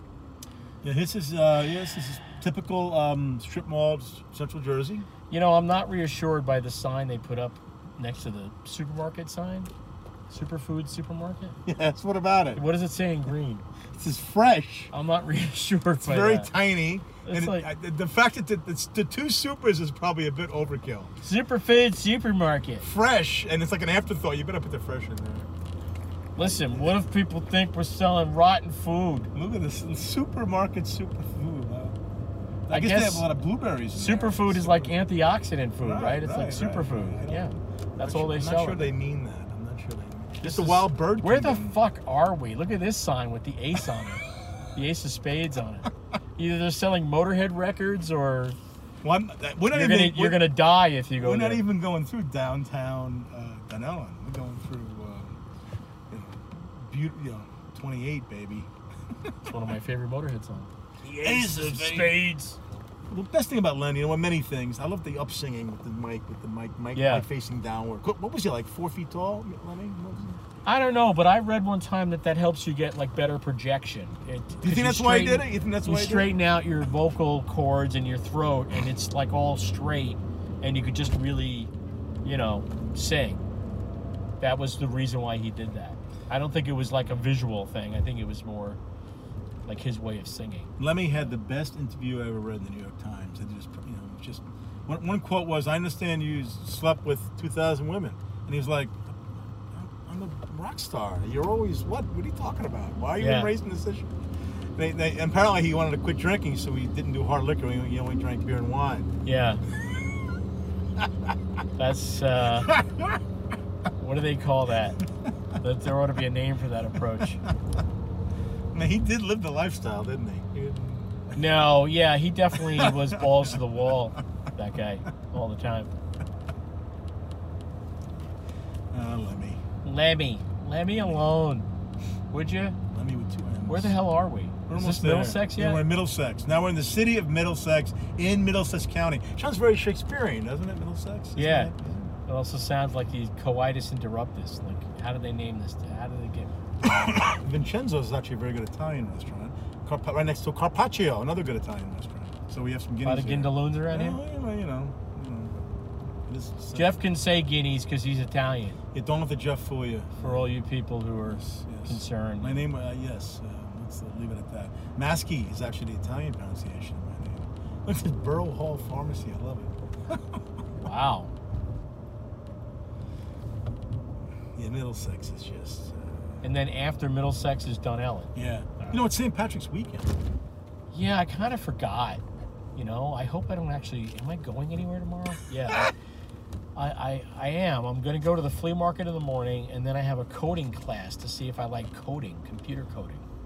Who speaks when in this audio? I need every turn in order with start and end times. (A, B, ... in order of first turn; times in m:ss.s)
0:00.8-0:05.1 A
0:05.3-0:09.7 B
0:10.3-0:11.6 B
0:11.6-0:12.6 A
0:12.5-0:13.6 B
0:13.9-0:14.9 A
0:14.9-0:16.5 B
0:16.0-0:21.1 A
0:17.2-0:17.7 B
0:21.2-0:22.9 B
0:22.8-0:25.5 A
0:26.4-0:29.3 B
0:26.4-0:27.0 A
0:29.3-0:32.0 A
0:32.7-0:35.0 A
0:32.7-0:33.2 B
0:33.9-0:38.9 B
0:35.8-0:41.8 A
0:40.4-0:44.2 B
0:44.7-0:48.6 B
0:49.0-0:50.5 A
0:49.7-0:51.6 B
0:51.2-0:55.4 A
0:56.1-0:59.6 A
0:59.4-1:02.6 B
1:01.2-1:02.2 A
1:03.1-1:10.4 A
1:06.9-1:07.2 B
1:10.6-1:21.7 B
1:14.6-1:16.3 A
1:22.2-1:23.4 B
1:24.4-1:28.8 B
1:29.7-1:30.7 B
1:30.8-1:44.1 A
1:43.2-1:43.5 B
1:44.8-1:49.1 A
1:49.2-1:49.6 B
1:51.0-1:51.3 A
1:51.8-1:52.7 B
1:52.5-1:53.2 A
1:54.0-1:55.0 B
1:55.6-1:57.4 B
1:57.2-1:57.5 A
1:58.7-2:01.5 A
2:01.3-2:05.9 B
2:02.5-2:03.6 A
2:08.9-2:09.6 A
2:09.8-2:11.7 B
2:11.0-2:11.2 A
2:12.3-2:12.8 B
2:12.9-2:14.0 A
2:13.7-2:15.8 B
2:14.7-2:22.1 A
2:21.4-2:21.7 B
2:22.2-2:26.5 B
2:26.8-2:35.6 A
2:33.0-2:34.2 B
2:36.3-2:37.0 A
2:36.7-2:38.8 B
2:38.9-2:40.5 A
2:40.2-2:42.6 B
2:41.2-2:50.4 A
2:50.8-2:51.3 B
2:54.5-2:56.3 A
2:56.4-2:59.0 B
2:58.3-3:00.2 A
3:00.9-3:02.2 B
3:02.8-3:05.9 B
3:06.8-3:13.2 B